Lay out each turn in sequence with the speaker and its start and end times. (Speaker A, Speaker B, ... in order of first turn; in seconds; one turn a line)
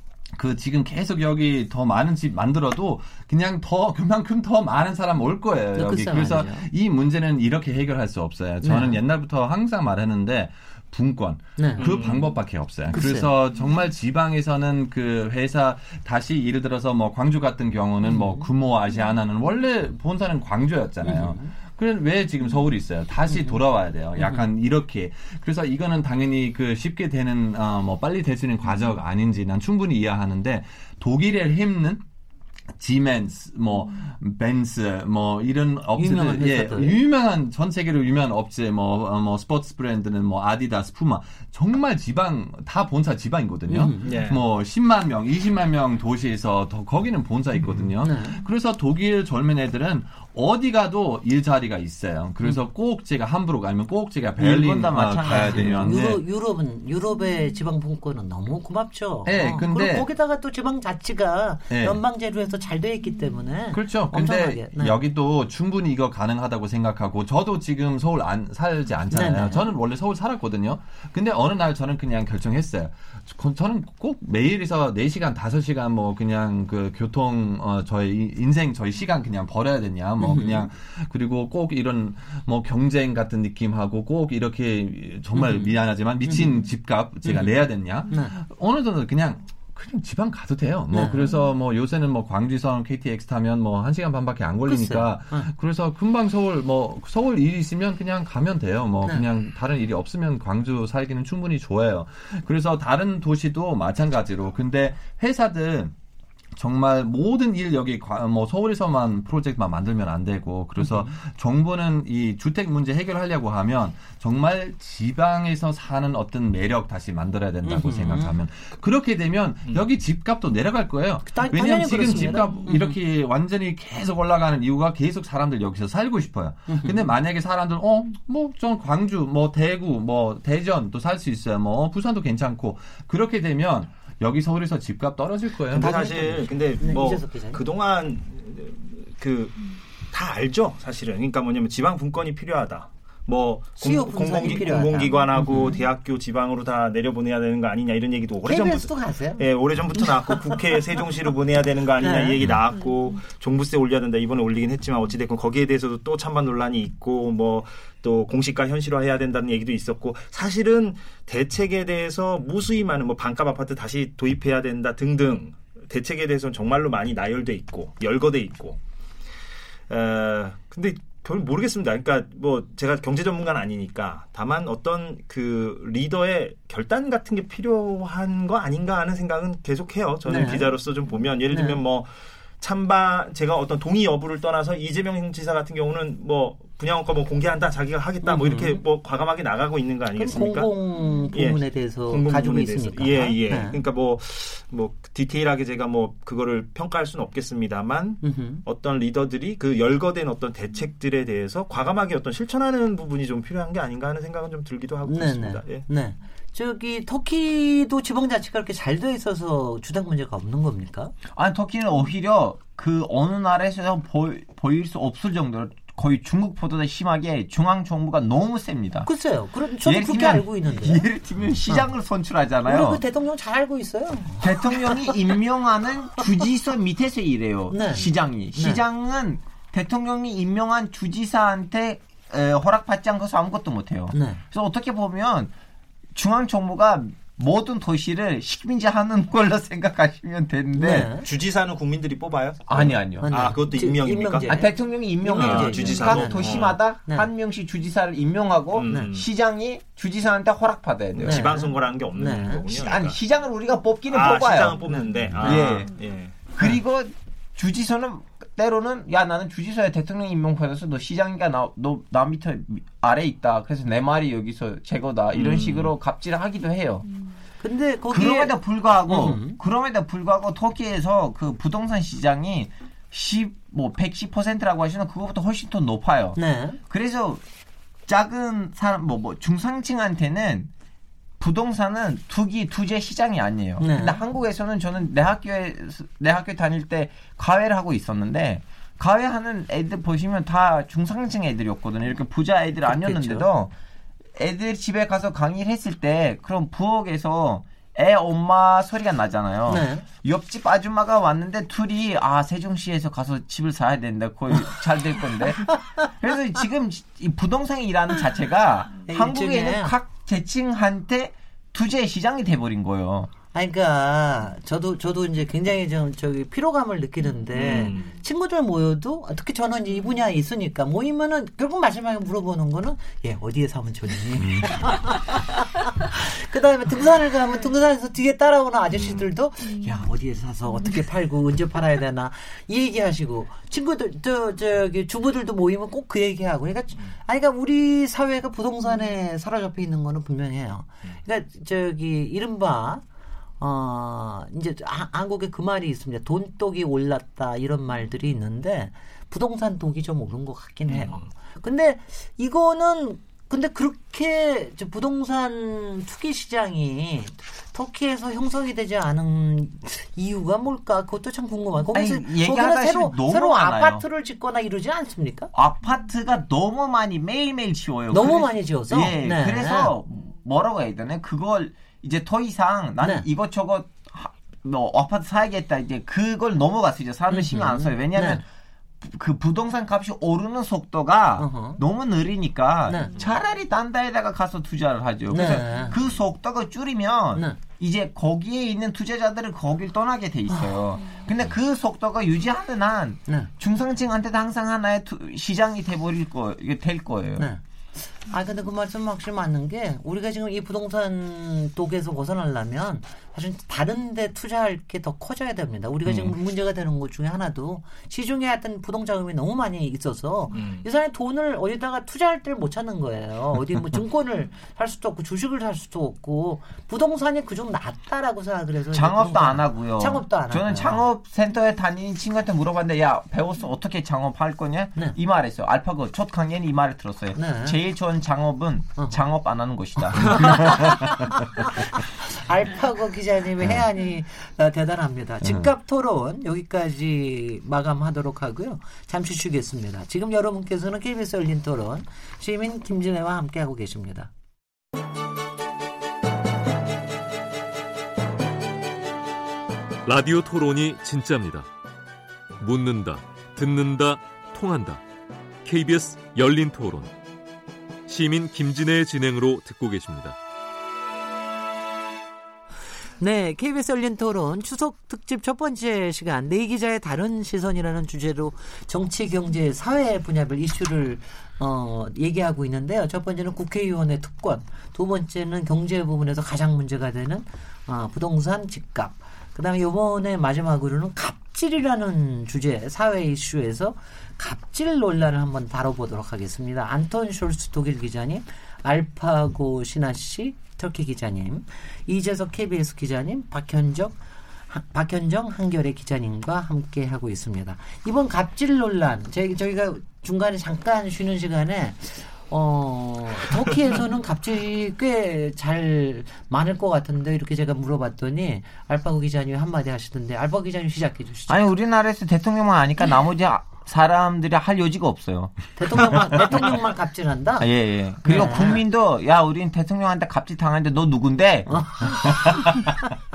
Speaker A: 0.3-32.0
Speaker B: 5.8-6.7
Speaker B: 8.6-9.0
Speaker B: 11.6-12.0
Speaker C: 11.8-12.3
Speaker B: 12.9-13.3
Speaker B: 18.0-18.4
Speaker B: 21.0-21.5
Speaker B: 23.3-23.6
Speaker B: 24.2-24.4
Speaker A: 32.8-56.2
Speaker B: 36.0-37.0
Speaker B: 43.7-44.2
Speaker C: 44.0-44.4
Speaker B: 48.0-48.4
Speaker D: 54.4-55.9
Speaker B: 55.2-65.0
Speaker A: 59.2-60.1
Speaker A: 61.7-62.0
Speaker A: 63.7-105.9
Speaker B: 69.1-69.7
Speaker B: 80.2-80.7
Speaker B: 85.3-86.5
Speaker B: 87.2-87.5
Speaker B: 88.1-88.3
Speaker B: 90.9-91.3
Speaker B: 94.6-95.5
Speaker A: 106.5-136.2
Speaker B: 117.6-118.3
Speaker B: 121.2-123.0
Speaker B: 126.7-127.1
Speaker C: 135.7-168.8
Speaker B: 135.7-137.6
Speaker B: 143.8-145.8
Speaker B: 148.4-149.4
Speaker B: 150.0-150.5
Speaker B: 152.0-152.4
Speaker C: 169.9-190.7
Speaker B: 180.2-180.7
Speaker B: 181.5-181.8
Speaker B: 188.2-188.8
Speaker B: 190.2-193.8
Speaker C: 191.3-205.8
Speaker B: 198.2-198.6
Speaker B: 205.0-211.1
Speaker D: 211.3-219.1
Speaker B: 219.1-221.1
Speaker D: 219.8-223.0
Speaker B: 222.6-225.2
Speaker D: 224.4-235.5
Speaker B: 227.7-228.8
Speaker B: 234.1-234.4
Speaker D: 236.1-241.1
Speaker B: 240.8-241.2
Speaker C: 241.2-244.6
Speaker D: 242.7-243.5
Speaker B: 243.2-244.7
Speaker D: 244.5-251.5
Speaker B: 245.2-247.3
Speaker C: 245.3-246.8
Speaker C: 248.7-249.3
Speaker C: 251.1-253.2
Speaker B: 251.2-252.7
Speaker D: 252.7-254.8
Speaker C: 254.1-256.4
Speaker B: 254.9-255.2
Speaker D: 255.4-255.9
Speaker D: 256.5-267.0
Speaker C: 265.3-265.9
Speaker B: 267.6-269.6
Speaker D: 268.1-277.4
Speaker B: 276.4-276.8
Speaker D: 278.1-280.7
Speaker D: 281.4-293.7
Speaker B: 283.8-284.2
Speaker B: 292.9-293.5
Speaker D: 294.4-313.3
Speaker B: 299.7-300.0
Speaker B: 309.0-309.9
Speaker B: 313.5-343.0
Speaker C: 317.5-318.2
Speaker A: 324.4-324.8
Speaker C: 328.9-329.2
Speaker B: 343.6-365.5
Speaker C: 350.9-351.3
Speaker D: 361.9-364.0
Speaker D: 365.5-378.4
Speaker B: 368.1-369.9
Speaker B: 377.3-378.4
Speaker D: 379.0-397.5
Speaker B: 381.4-381.8
Speaker B: 382.9-383.1
Speaker B: 385.3-386.0
Speaker B: 397.4-421.0
Speaker C: 410.5-410.8
Speaker D: 418.9-430.7
Speaker B: 427.4-427.8
Speaker B: 430.4-430.9
Speaker A: 430.8-431.3
Speaker B: 431.9-444.3
Speaker A: 435.4-435.7
Speaker E: 450.0-451.7
Speaker E: 452.6-455.0
Speaker E: 455.6-457.1
Speaker E: 458.1-460.4
Speaker B: 463.2-494.2
Speaker B: 494.7-511.6
Speaker D: 511.5-516.6
Speaker B: 515.8-517.7
Speaker D: 517.6-522.6
Speaker B: 518.2-518.8
Speaker B: 521.7-522.9